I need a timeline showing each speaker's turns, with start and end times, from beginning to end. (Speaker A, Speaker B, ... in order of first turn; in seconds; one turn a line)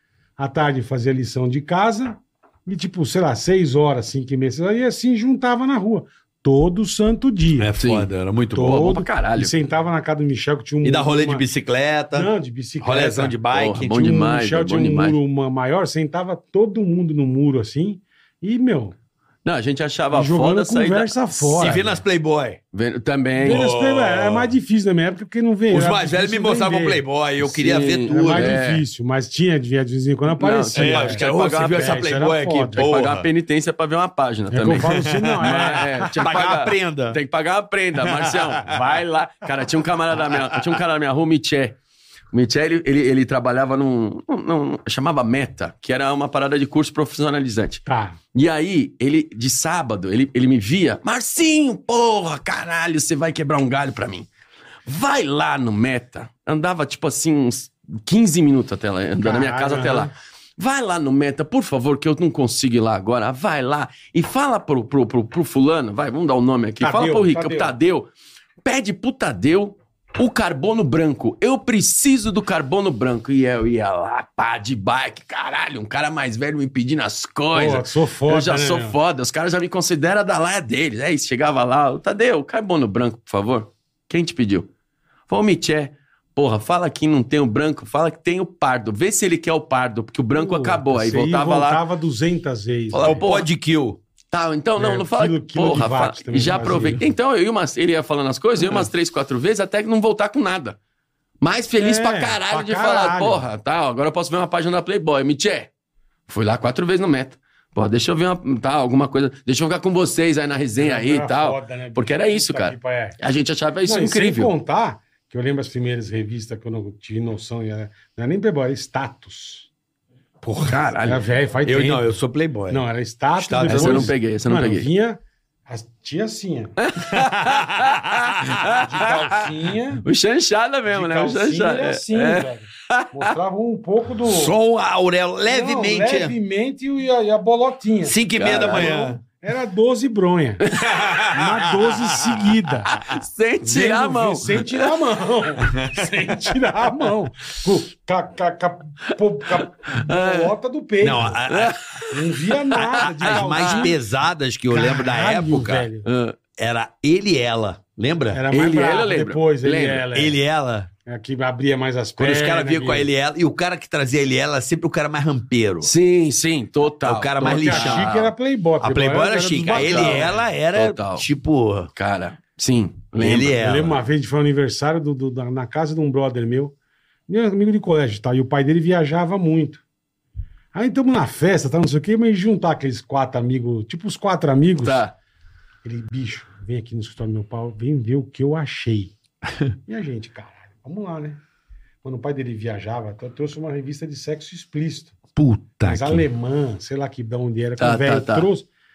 Speaker A: 0.4-7.7
Speaker B: 7.6-8.9
Speaker C: 7.8-9.5
Speaker A: 8.5-11.4
Speaker B: 10.8-14.0
Speaker A: 12.1-18.9
Speaker C: 13.5-15.2
Speaker C: 19.4-21.7
Speaker A: 20.1-22.0
Speaker B: 21.6-22.6
Speaker C: 22.7-23.6
Speaker A: 23.4-27.0
Speaker B: 23.4-24.5
Speaker B: 25.7-28.6
Speaker C: 27.4-28.8
Speaker A: 28.1-32.8
Speaker C: 30.3-32.1
Speaker B: 30.7-33.3
Speaker C: 32.7-41.8
Speaker A: 34.5-36.1
Speaker B: 34.7-37.2
Speaker B: 38.0-38.6
Speaker B: 40.3-40.6
Speaker C: 42.3-47.8
Speaker A: 47.9-48.1
Speaker C: 48.3-54.3
Speaker C: 54.9-68.1
Speaker A: 59.2-60.1
Speaker A: 66.8-67.7
Speaker C: 68.6-84.7
Speaker A: 77.5-78.9
Speaker C: 85.3-91.8
Speaker A: 90.3-93.2
Speaker B: 92.9-94.0
Speaker C: 93.0-93.5
Speaker C: 94.3-100.8
Speaker A: 94.8-97.0
Speaker C: 101.4-105.7
Speaker A: 101.8-103.4
Speaker C: 106.3-114.5
Speaker A: 110.8-113.2
Speaker A: 113.8-119.7
Speaker C: 120.5-121.2
Speaker A: 120.6-122.2
Speaker B: 121.6-122.9
Speaker A: 122.7-126.7
Speaker B: 123.4-124.1
Speaker C: 123.6-124.9
Speaker C: 126.8-129.1
Speaker B: 127.1-128.6
Speaker A: 128.6-130.0
Speaker C: 130.0-133.1
Speaker A: 130.9-134.6
Speaker B: 134.2-136.3
Speaker A: 135.4-138.2
Speaker B: 138.0-139.2
Speaker C: 138.4-139.1
Speaker A: 138.7-140.6
Speaker C: 140.8-141.2
Speaker B: 140.8-142.5
Speaker A: 141.3-142.9
Speaker C: 142.9-144.8
Speaker A: 143.6-151.4
Speaker B: 145.6-146.1
Speaker C: 149.5-150.5
Speaker B: 151.0-151.7
Speaker C: 151.5-153.9
Speaker A: 152.1-153.9
Speaker B: 153.2-155.9
Speaker A: 154.7-156.0
Speaker C: 156.0-156.4
Speaker B: 156.6-158.5
Speaker A: 158.3-160.4
Speaker C: 158.5-160.1
Speaker B: 160.1-160.9
Speaker A: 161.1-163.1
Speaker B: 162.2-165.9
Speaker C: 165.8-168.3
Speaker B: 167.0-168.2
Speaker A: 167.4-170.4
Speaker B: 168.8-171.9
Speaker C: 169.7-171.2
Speaker C: 171.9-173.6
Speaker B: 173.2-174.0
Speaker A: 173.6-176.7
Speaker A: 177.3-179.8
Speaker A: 180.7-185.0
Speaker C: 184.8-185.1
Speaker A: 185.8-189.1
Speaker A: 189.9-191.4
Speaker A: 192.0-195.1
Speaker B: 195.3-196.2
Speaker A: 195.8-198.7
Speaker C: 197.8-198.5